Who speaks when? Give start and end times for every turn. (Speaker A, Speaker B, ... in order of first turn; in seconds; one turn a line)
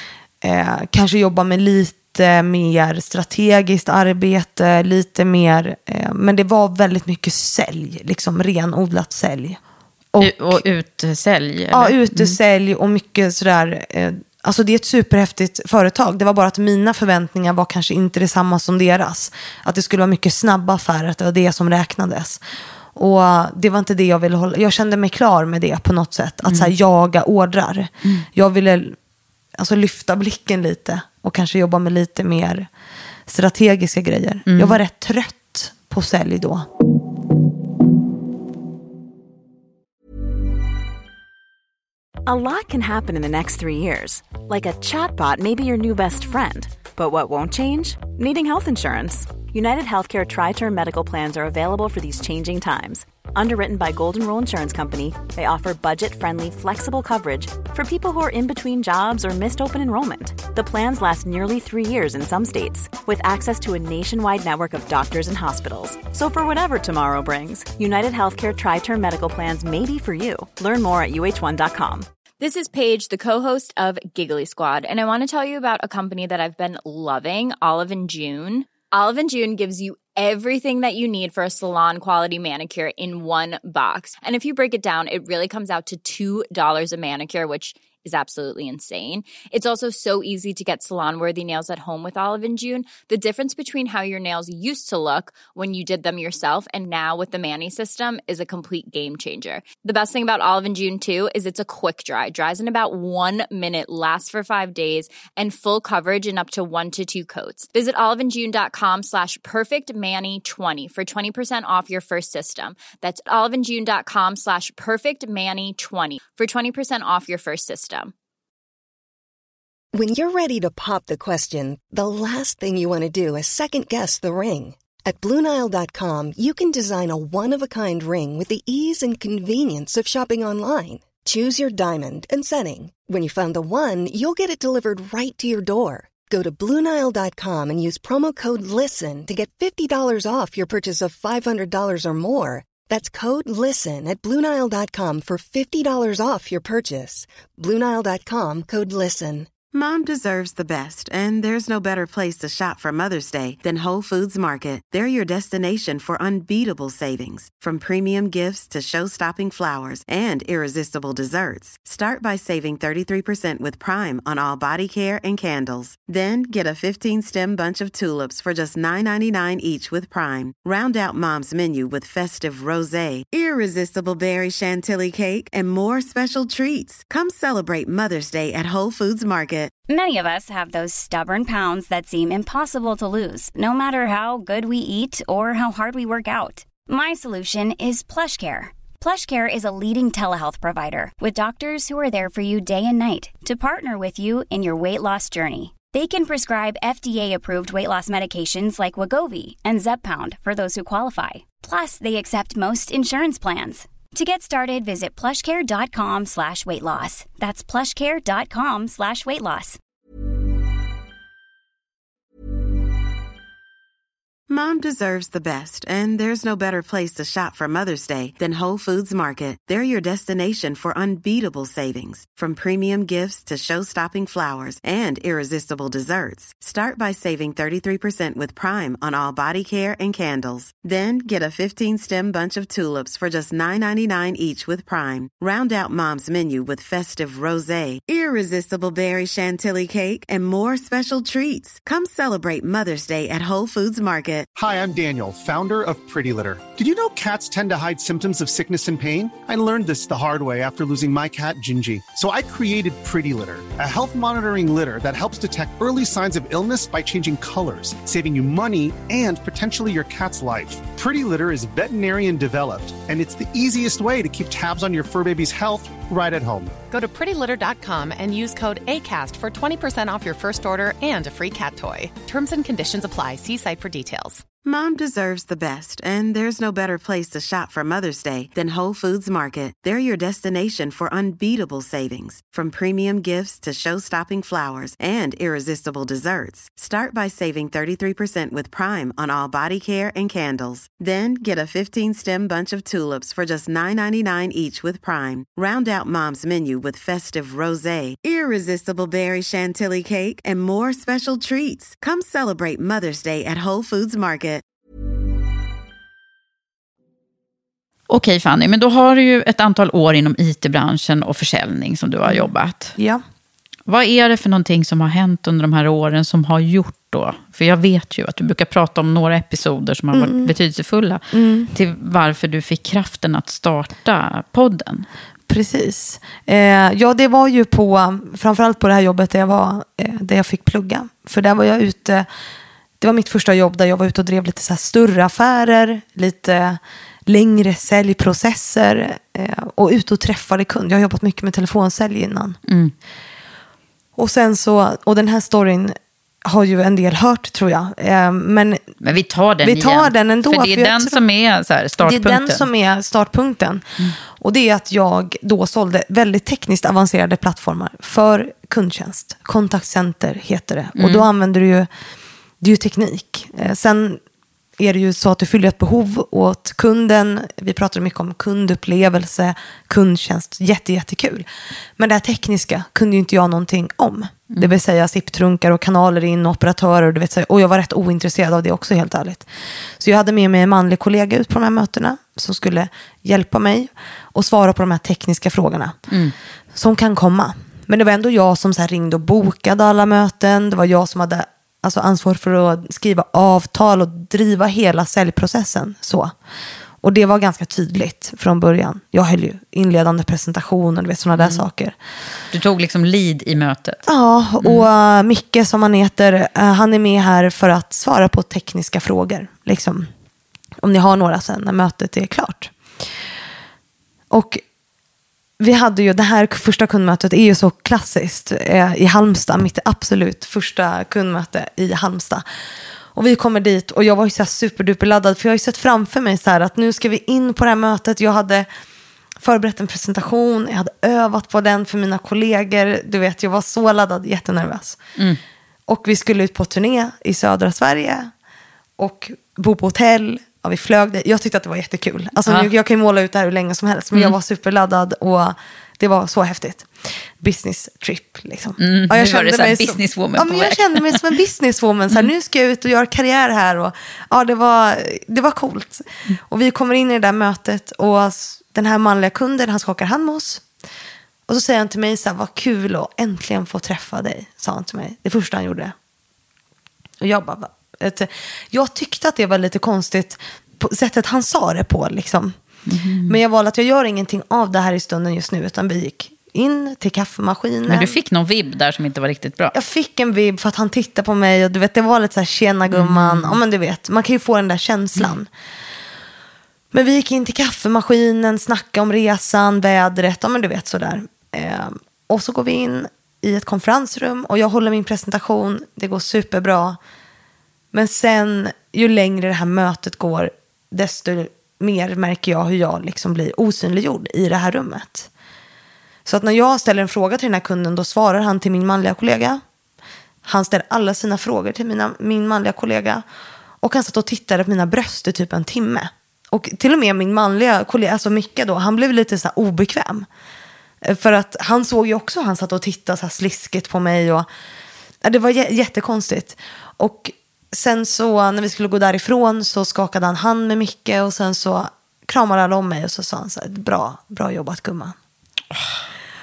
Speaker A: 0.4-9.6
Speaker A: 10.1-10.6
Speaker B: 10.2-12.4
Speaker A: 11.7-22.4
Speaker A: 22.9-29.0
Speaker B: 26.5-26.7
Speaker A: 29.6-32.7
Speaker A: 33.3-36.7
Speaker B: 34.5-34.8
Speaker C: 42.2-72.0
Speaker D: 72.4-118.1
Speaker E: 119.9-149.5
Speaker F: 149.7-179.7
Speaker G: 179.9-209.8
Speaker F: 214.5-244.5
Speaker H: 244.6-266.8
Speaker I: 266.9-274.4
Speaker F: 274.6-304.6
Speaker B: 308.1-312.9
Speaker A: 312.3-313.2
Speaker B: 313.9-321.2
Speaker A: 320.1-320.5
Speaker A: 321.3-321.7
Speaker B: 321.7-325.1
Speaker A: 325.5-332.3
Speaker A: 333.0-342.6
Speaker B: 342.7-342.9
Speaker A: 344.2-348.8
Speaker B: 349.0-352.7
Speaker A: 349.6-351.2
Speaker A: 352.0-361.9
Speaker B: 360.9-361.3
Speaker A: 362.6-364.2
Speaker A: 364.8-371.5
Speaker A: 372.0-386.0
Speaker A: 386.7-396.3
Speaker A: 397.0-401.9
Speaker B: 401.3-401.6
Speaker B: 402.5-404.0
Speaker A: 404.1-410.1
Speaker B: 404.6-404.9
Speaker A: 410.8-412.7
Speaker A: 414.3-414.6
Speaker A: 415.6-422.4
Speaker A: 423.1-428.7
Speaker A: 429.4-435.0
Speaker A: 435.9-438.3
Speaker A: 439.0-460.6
Speaker B: 448.8-451.2
Speaker A: 461.5-465.9
Speaker A: 467.2-472.6
Speaker B: 472.9-473.4
Speaker A: 473.3-478.1
Speaker B: 477.9-479.7
Speaker A: 479.7-485.5
Speaker B: 482.9-483.6
Speaker A: 486.9-497.0
Speaker A: 497.9-505.3
Speaker A: 506.2-509.6
Speaker A: 510.4-513.2
Speaker A: 513.8-520.3
Speaker A: 521.0-524.5
Speaker A: 525.2-535.1
Speaker B: 535.7-536.0